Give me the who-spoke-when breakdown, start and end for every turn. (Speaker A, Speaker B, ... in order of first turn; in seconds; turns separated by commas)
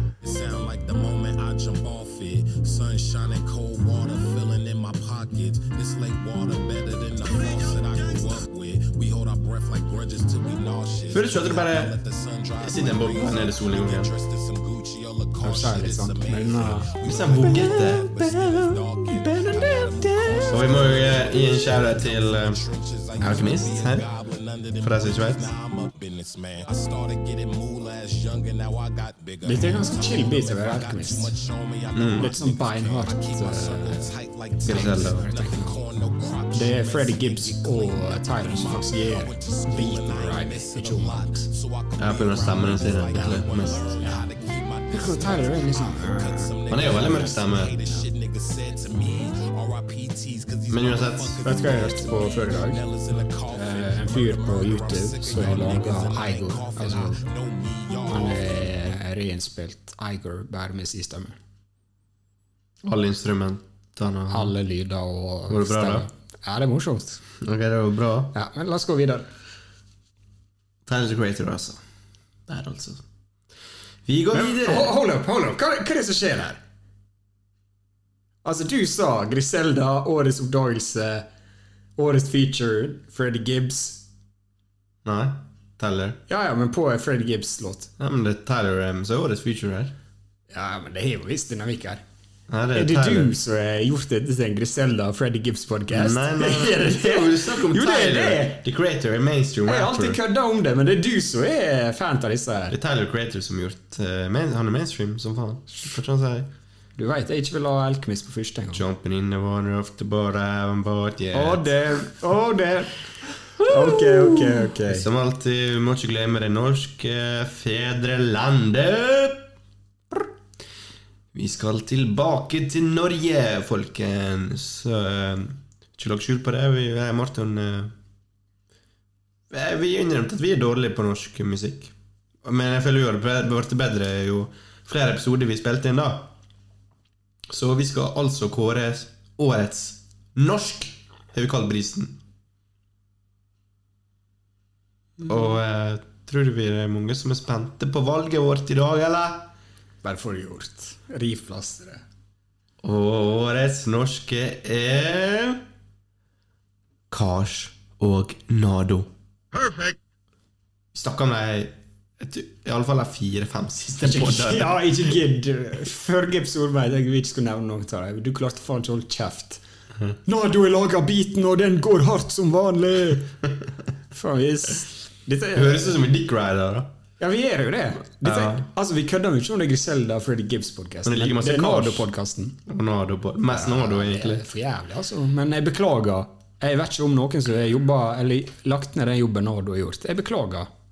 Speaker A: 0.2-59.0, Speaker B: 11.1-12.0, Speaker B: 12.6-14.1, Speaker C: 15.4-16.9, Speaker B: 17.0-18.1, Speaker C: 19.3-20.5, Speaker B: 20.5-22.6, Speaker B: 23.2-24.1, Speaker B: 24.8-25.5, Speaker C: 29.4-31.4, Speaker B: 31.9-32.3, Speaker C: 32.2-35.8, Speaker B: 34.6-35.2, Speaker C: 36.5-41.5, Speaker B: 42.0-43.9, Speaker C: 44.0-44.3, Speaker C: 44.9-46.5, Speaker B: 46.7-47.8, Speaker B: 50.7-51.4, Speaker C: 51.4-52.8, Speaker C: 53.5-57.2, Speaker C: 58.1-61.4, Speaker B: 62.8-64.5, Speaker C: 64.3-67.2, Speaker B: 65.5-66.1, Speaker B: 67.4-68.3, Speaker C: 68.3-69.3, Speaker B: 70.9-71.8, Speaker B: 72.5-73.0, Speaker B: 74.1-74.9, Speaker C: 74.3-76.6, Speaker C: 78.4-81.3, Speaker C: 82.0-84.0, Speaker B: 85.0-86.2, Speaker C: 86.3-87.9, Speaker B: 88.0-89.9, Speaker C: 90.5-92.0, Speaker B: 92.5-93.3, Speaker C: 92.7-98.6, Speaker B: 95.9-100.2, Speaker C: 99.7-102.8, Speaker B: 102.7-106.5, Speaker C: 107.0-108.8, Speaker B: 108.7-112.1, Speaker C: 111.3-115.1, Speaker B: 113.6-119.5, Speaker B: 121.3-127.9, Speaker B: 129.5-131.9, Speaker B: 132.4-136.3, Speaker B: 137.5-142.2, Speaker B: 145.2-149.5, Speaker C: 150.0-152.0, Speaker B: 152.8-155.6, Speaker B: 157.1-159.1, Speaker B: 160.9-165.1, Speaker C: 164.0-169.6, Speaker C: 170.2-173.3, Speaker C: 174.1-176.0, Speaker B: 175.5-176.9, Speaker C: 177.2-182.6, Speaker B: 178.2-178.7, Speaker B: 181.1-182.1, Speaker B: 182.7-184.4, Speaker C: 183.5-190.7